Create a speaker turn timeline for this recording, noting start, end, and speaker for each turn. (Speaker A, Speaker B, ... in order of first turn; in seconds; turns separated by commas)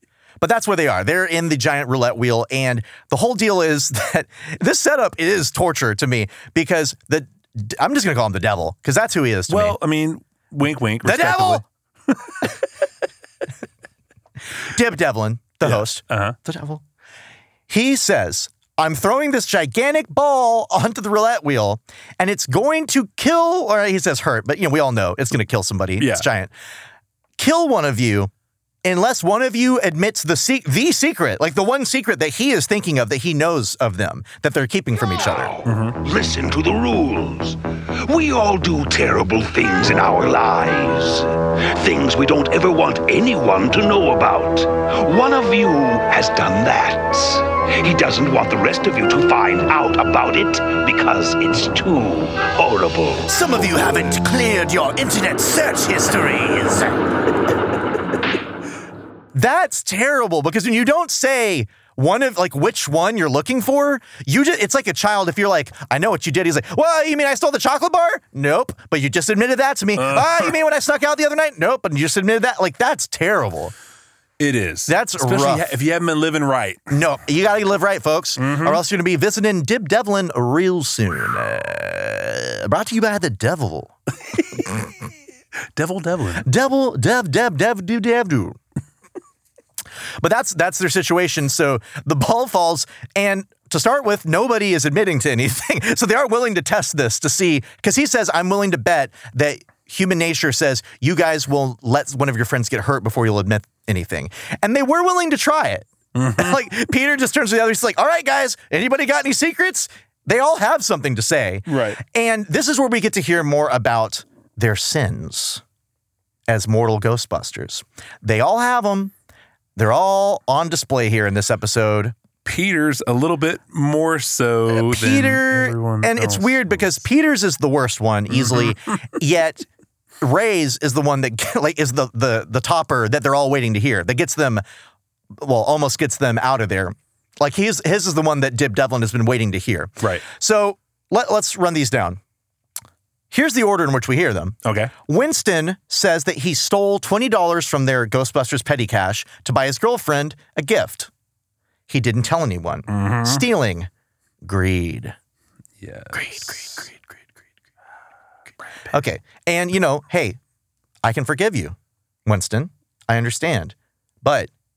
Speaker A: 0.4-9.8, Speaker B: 9.5-11.7, Speaker A: 11.0-11.6, Speaker A: 14.6-16.8, Speaker B: 15.7-16.4, Speaker A: 17.7-26.5, Speaker B: 26.0-26.3, Speaker A: 27.4-28.3, Speaker A: 28.8-35.6, Speaker B: 35.6-36.0, Speaker C: 36.0-53.3, Speaker A: 53.3-57.0, Speaker A: 59.3-73.7, Speaker B: 70.0-70.5, Speaker B: 74.4-76.9, Speaker A: 74.9-75.7, Speaker A: 76.9-84.0, Speaker B: 78.4-78.8, Speaker A: 84.5-84.9, Speaker B: 85.8-86.5, Speaker A: 86.4-88.6, Speaker A: 90.2-115.6, Speaker B: 106.2-106.6, Speaker B: 111.7-112.0, Speaker A: 116.5-119.1, Speaker A: 119.8-122.2, Speaker B: 122.5-127.0, Speaker A: 124.7-129.7, Speaker B: 128.3-128.7, Speaker A: 130.2-134.6, Speaker A: 135.4-142.2, Speaker A: 143.3-151.1, Speaker B: 144.7-144.9, Speaker A: 151.9-153.9, Speaker B: 152.9-153.5, Speaker A: 154.4-155.2, Speaker B: 155.8-156.9, Speaker A: 156.1-156.9, Speaker A: 158.9-160.4, Speaker A: 161.0-164.5